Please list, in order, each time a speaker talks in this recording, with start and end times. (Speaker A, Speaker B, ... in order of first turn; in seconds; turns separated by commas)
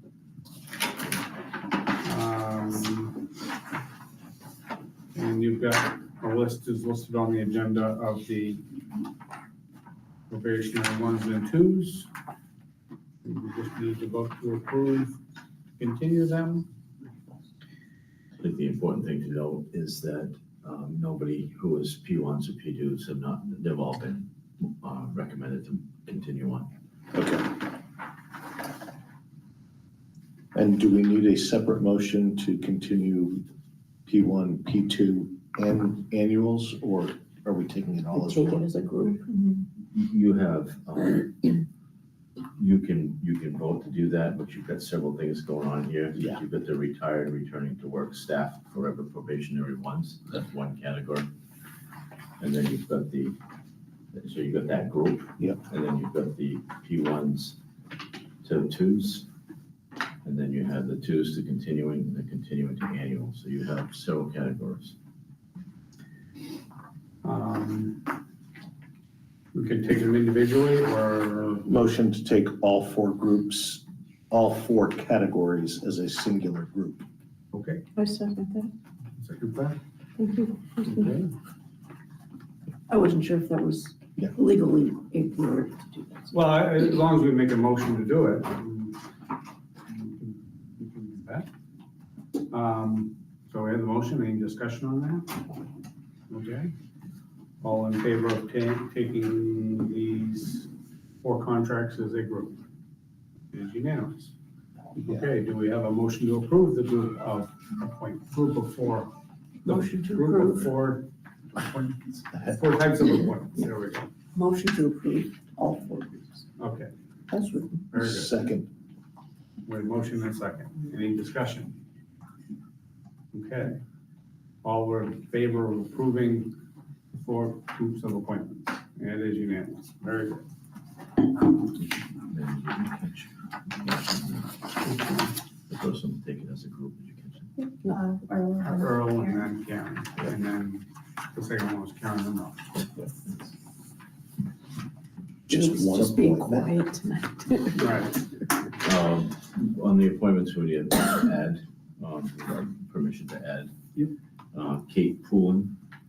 Speaker A: 2.0-3.2, Speaker A: 5.2-8.6, Speaker A: 10.3-12.1, Speaker A: 13.2-15.2, Speaker A: 15.8-16.7, Speaker B: 18.4-26.7, Speaker C: 27.1-27.6, Speaker C: 30.5-33.4, Speaker C: 34.0-38.7, Speaker D: 38.1-39.6, Speaker B: 39.9-41.6, Speaker B: 42.5-51.3, Speaker B: 52.4-53.4, Speaker B: 54.1-57.6, Speaker B: 58.4-59.3, Speaker B: 60.2-65.0, Speaker A: 67.2-68.1, Speaker A: 69.5-71.7, Speaker C: 71.6-77.0, Speaker A: 77.5-77.8, Speaker D: 78.0-78.7, Speaker A: 79.2-79.8, Speaker D: 80.2-81.0, Speaker A: 80.8-81.3, Speaker D: 82.9-86.3, Speaker A: 86.3-89.0, Speaker A: 89.9-91.5, Speaker A: 92.5-95.4, Speaker A: 96.3-96.7, Speaker A: 97.6-100.7, Speaker A: 101.2-102.6, Speaker A: 103.5-104.3, Speaker A: 104.9-109.1, Speaker A: 109.6-114.1, Speaker D: 109.7-110.7, Speaker D: 114.3-116.4, Speaker A: 116.6-116.9, Speaker D: 117.3-117.8, Speaker A: 117.9-118.3, Speaker C: 117.9-118.7, Speaker A: 119.6-121.8, Speaker A: 123.3-123.8, Speaker A: 124.6-126.5, Speaker A: 127.1-130.4, Speaker B: 131.7-134.6, Speaker A: 134.8-135.3, Speaker B: 135.7-137.5, Speaker D: 137.6-138.9, Speaker A: 138.7-142.8, Speaker C: 145.5-146.7, Speaker D: 145.5-147.9, Speaker A: 147.7-148.2, Speaker B: 148.8-153.7, Speaker B: 154.5-155.8